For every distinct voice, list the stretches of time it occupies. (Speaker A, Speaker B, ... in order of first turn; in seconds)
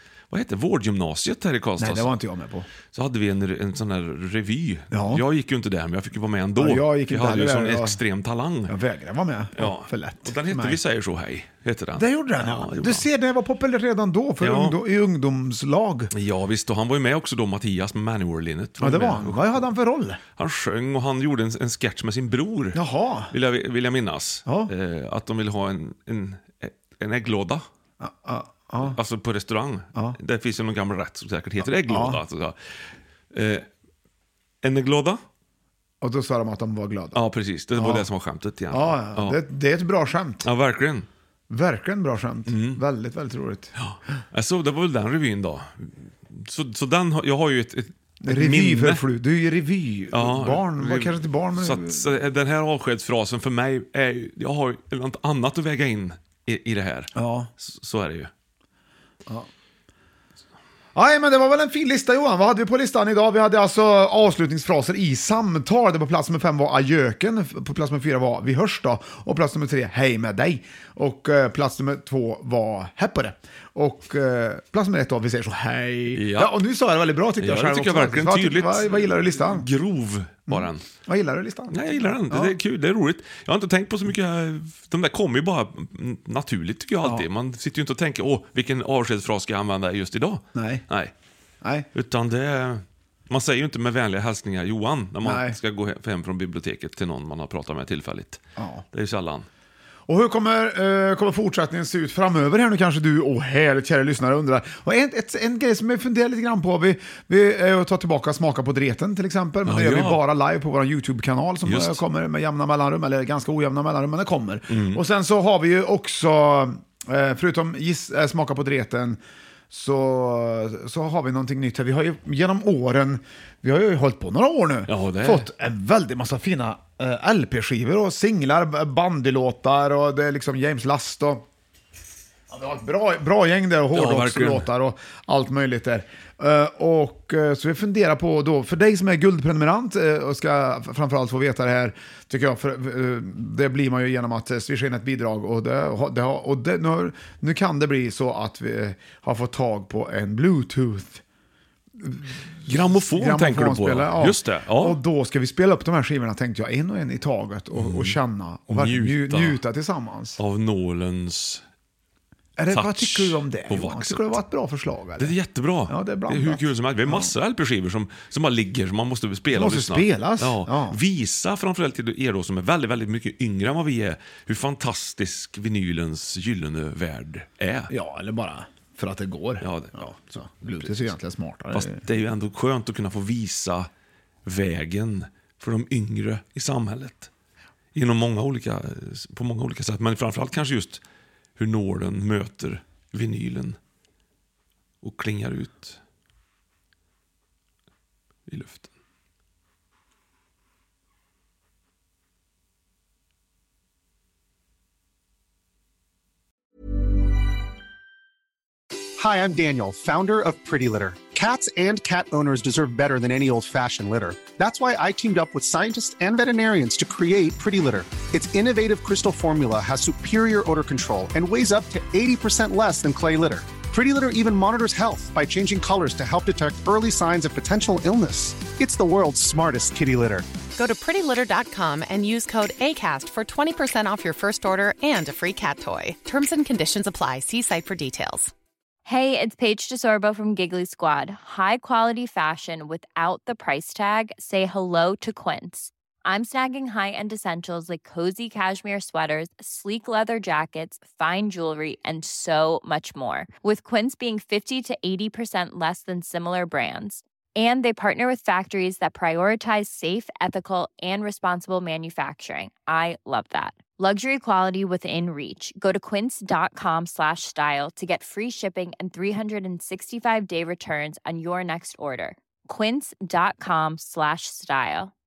Speaker A: 0.3-2.1, 2.9-8.7, 9.6-13.1, 14.4-14.8, 16.1-19.7, 20.4-27.6, 28.8-32.7, 33.3-33.7, 34.6-35.2, 37.1-39.4, 40.5-41.1, 42.5-42.8, 43.8-49.0, 50.1-58.3, 76.1-76.5, 77.4-80.8, 81.7-91.1, 91.9-99.5, 109.7-110.2, 111.7-112.0, 114.7-115.0, 124.9-125.5, 133.9-134.7, 152.7-155.0, 157.8-158.2, 158.7-159.6, 160.4-161.6, 162.7-164.4, 165.2-177.9, 179.6-179.9, 181.7-183.9, 184.4-187.3, 187.9-191.0, 191.6-193.8, 195.0-196.0, 198.5-198.9
Speaker B: 1.8-2.7, 4.9-5.2, 6.6-8.0, 8.7-10.8, 12.0-16.1, 18.8-20.2, 22.7-23.3, 24.5-24.7, 28.0-29.0, 31.8-32.2, 36.0-37.2, 37.8-38.1, 38.7-40.5, 41.5-43.8, 48.2-52.1, 57.2-57.5, 61.0-79.7, 80.5-82.6, 90.5-90.8, 91.6-91.9, 95.2-95.6, 98.6-98.8, 100.1-131.4, 132.5-151.2, 152.0-160.4, 162.6-165.3, 165.9-167.3, 169.5-171.0, 177.9-182.0
Speaker C: 209.2-230.5
Speaker D: 230.8-238.5
Speaker E: 239.1-275.1